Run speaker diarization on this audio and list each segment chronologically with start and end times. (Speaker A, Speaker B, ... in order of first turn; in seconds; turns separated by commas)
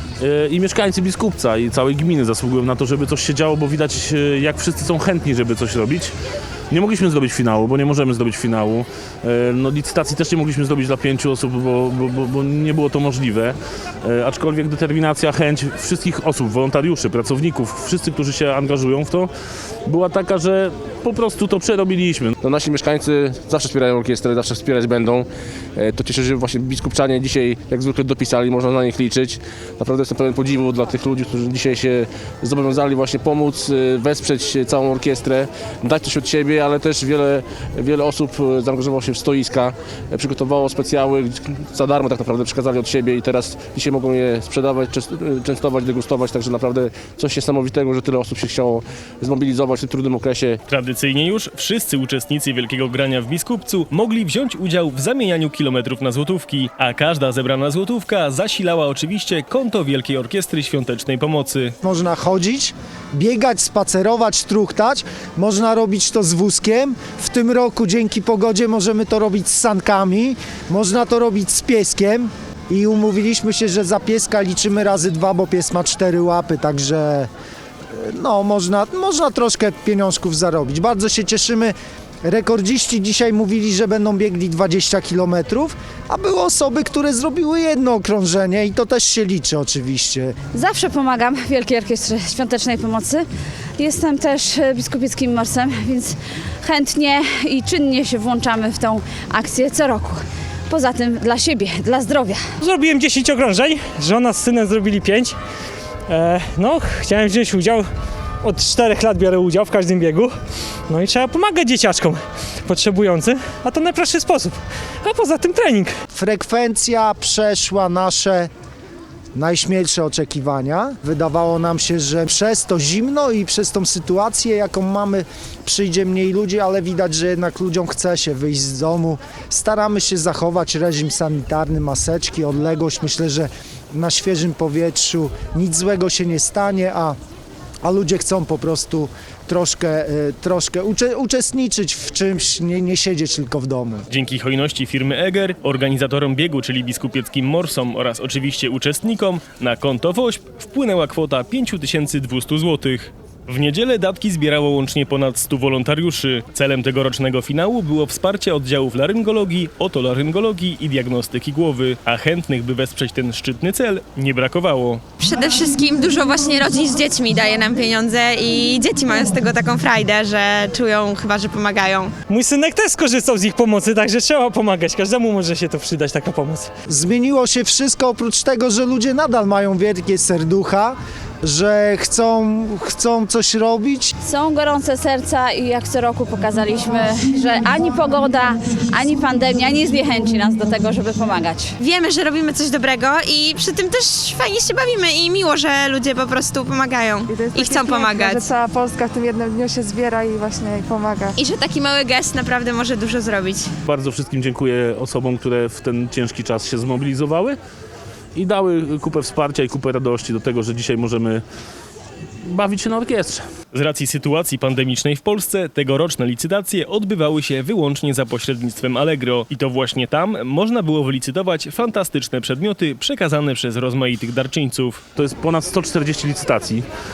Speaker A: 0.2-6.1, Speaker A: 6.7-19.3, Speaker A: 19.9-22.4, Speaker B: 22.4-50.6, Speaker C: 50.7-61.7, Speaker D: 61.8-77.3, Speaker D: 77.9-90.3, Speaker E: 90.5-93.2, Speaker E: 93.8-102.4, Speaker F: 102.6-105.4, Speaker F: 106.1-107.9, Speaker F: 108.4-110.3, Speaker F: 110.9-115.9, Speaker D: 116.1-118.5, Speaker D: 119.3-137.2, Speaker D: 137.8-144.1, Speaker C: 144.1-165.0, Speaker G: 165.2-172.1, Speaker F: 172.3-176.7, Speaker D: 176.9-184.1, Speaker E: 184.2-191.8, Speaker G: 191.8-198.5, Speaker H: 197.3-201.3, Speaker G: 201.3-203.7, Speaker A: 203.8-207.6, Speaker A: 208.3-211.4, Speaker A: 212.4-213.4, Speaker C: 213.7-225.0, Speaker A: 225.2-226.9